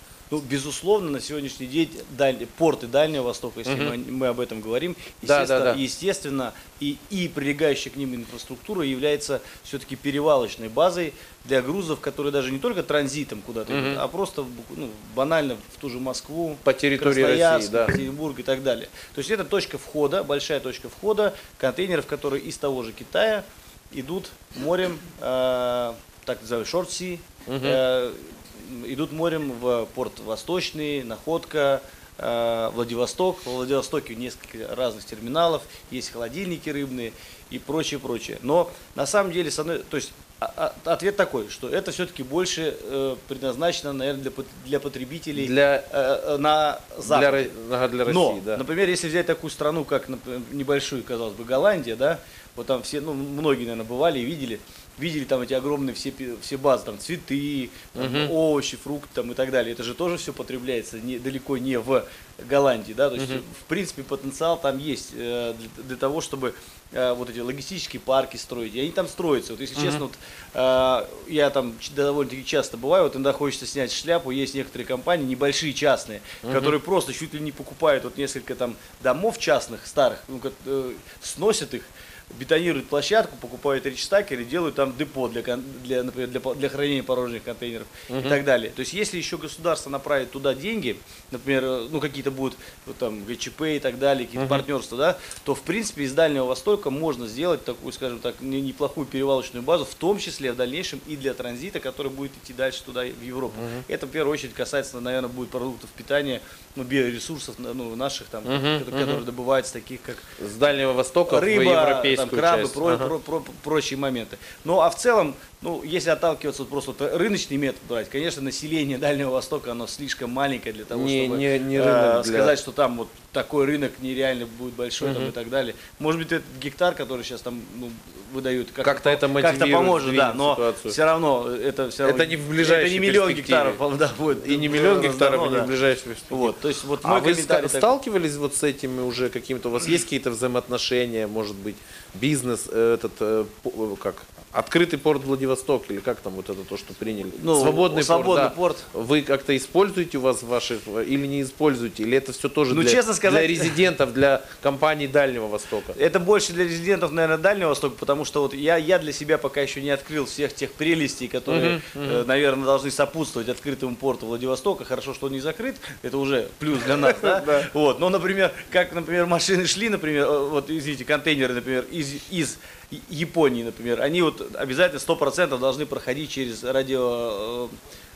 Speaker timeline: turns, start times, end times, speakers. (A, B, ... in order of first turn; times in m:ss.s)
0:00.3-0:47.5 A
0:05.2-0:05.8 B
0:13.7-0:14.0 B
0:16.6-0:17.9 B
0:27.5-0:27.8 B
0:45.4-0:45.9 B
0:47.0-0:48.6 B
0:48.0-1:50.3 A
0:58.0-0:58.3 B
1:16.4-1:16.8 B
1:28.1-1:28.4 B
1:34.4-1:34.6 B
1:43.5-1:43.8 B
1:48.5-1:49.2 B
1:50.4-1:53.1 B
1:51.3-2:15.7 A
2:00.9-2:02.5 B
2:05.0-2:05.3 B
2:08.8-2:11.0 B
2:12.0-2:13.8 B
2:14.4-2:36.0 B
2:16.3-2:17.9 A
2:27.3-2:28.8 A
2:32.7-2:33.8 A
2:35.9-2:57.7 A
2:41.5-2:42.2 B
2:47.0-2:47.7 B